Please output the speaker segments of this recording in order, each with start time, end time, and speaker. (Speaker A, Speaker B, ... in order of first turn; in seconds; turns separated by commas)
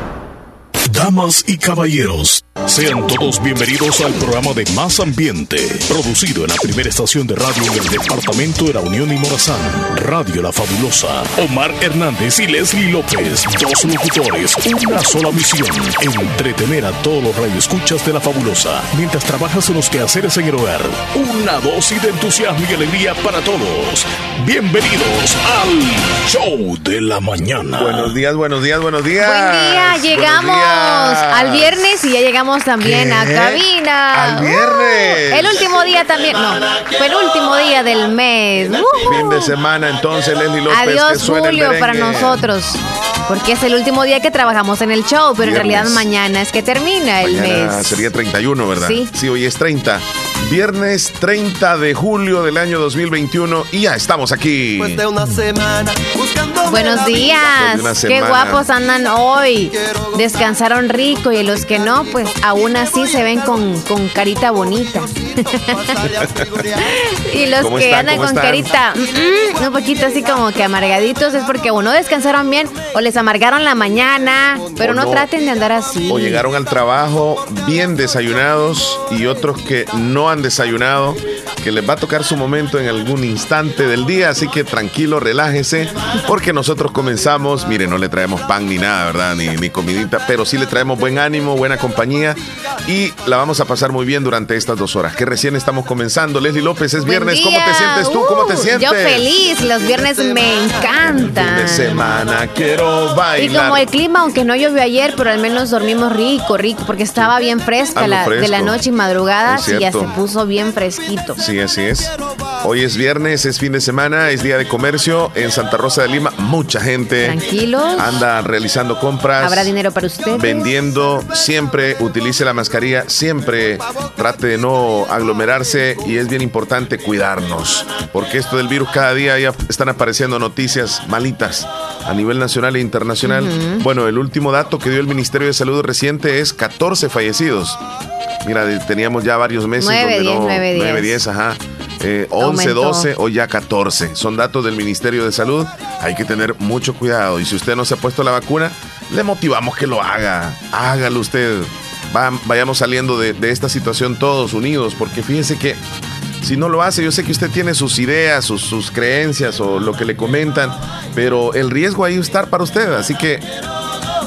Speaker A: 0.9-28.1, Speaker B: 27.8-32.1, Speaker C: 29.2-39.5, Speaker B: 32.8-35.6, Speaker D: 38.8-39.4, Speaker B: 39.0-42.5, Speaker C: 40.7-48.1, Speaker B: 45.4-46.1, Speaker B: 47.2-55.0, Speaker C: 48.8-49.1, Speaker D: 54.8-57.4, Speaker C: 56.7-65.1, Speaker B: 57.1-58.7, Speaker D: 59.7-63.9, Speaker D: 64.4-66.9, Speaker C: 66.9-76.5, Speaker B: 67.6-68.7, Speaker D: 69.8-70.4, Speaker D: 74.3-75.1, Speaker B: 74.8-75.3, Speaker B: 76.1-99.3, Speaker C: 97.0-102.2, Speaker D: 99.3-102.2, Speaker B: 101.0-103.9, Speaker C: 103.4-111.4, Speaker B: 107.9-108.8, Speaker B: 109.5-110.1, Speaker B: 111.4-117.4, Speaker C: 117.2-118.2, Speaker B: 118.0-119.7, Speaker C: 119.4-120.7, Speaker B: 120.3-137.8, Speaker C: 133.2-133.8, Speaker B: 138.4-155.8, Speaker C: 139.8-141.2, Speaker C: 142.4-143.1, Speaker B: 156.4-163.5